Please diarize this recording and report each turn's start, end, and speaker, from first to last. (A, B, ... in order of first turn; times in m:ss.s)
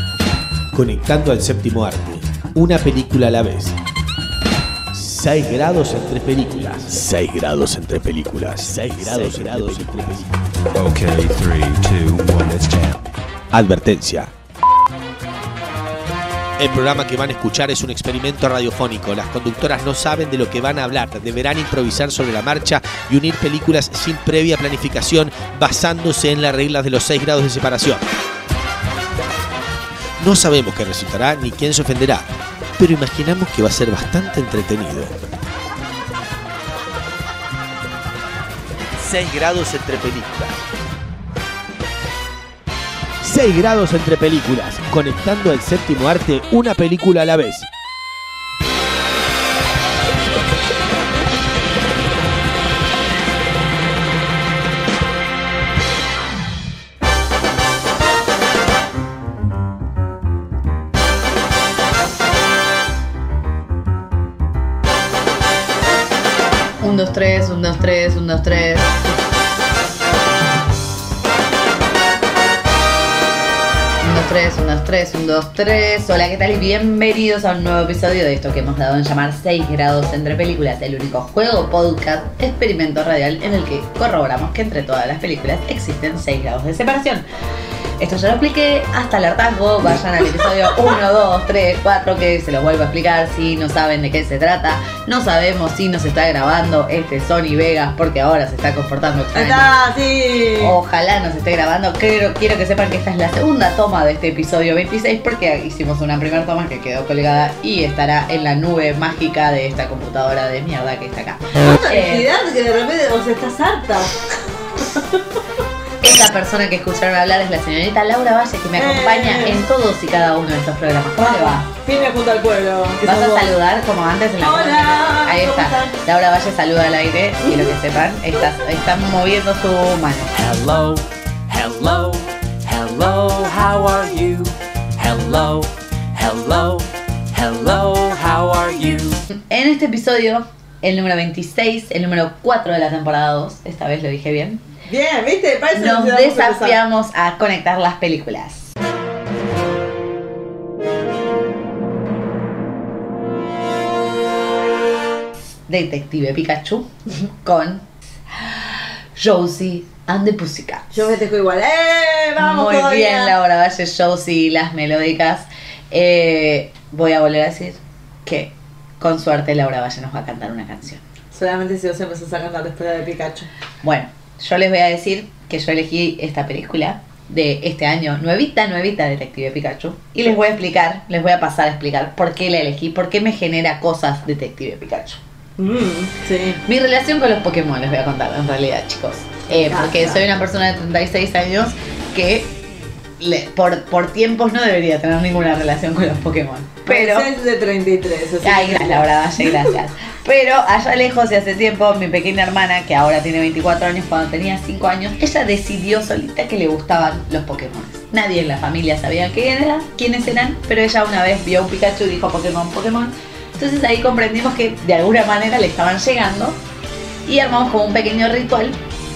0:00.7-0:03.8 A
0:04.9-0:10.3 A
0:10.7-0:13.0 B
0:13.5-0:14.3 A
0:16.6-0:28.0 A
0:30.2-0:35.1 A
0:39.0-0:40.6 A
0:43.2-0:47.7 A
1:06.8-1:09.0 C
1:14.0-1:27.2 C
1:28.0-1:39.7 C
1:39.4-1:40.8 D
1:40.6-1:52.3 C
1:51.6-1:54.2 D
1:56.0-2:01.7 C
1:58.8-1:59.6 D
2:01.2-2:03.5 D
2:03.0-2:10.3 C
2:04.4-2:06.0 D
2:10.4-2:19.2 E
2:19.3-2:24.6 C
2:24.9-2:26.8 D
2:25.8-2:28.7 C
2:35.7-2:36.9 C
2:37.4-2:37.8 C
2:38.4-2:41.0 C
2:40.9-2:43.4 D
2:42.4-2:51.0 C
2:51.3-2:53.5 D
2:53.8-3:05.2 C
3:05.6-3:06.6 D
3:06.7-3:12.5 C
3:09.5-3:10.3 D
3:13.2-3:17.3 C
3:16.9-3:19.7 D
3:18.4-3:36.6 C
3:37.3-3:38.8 C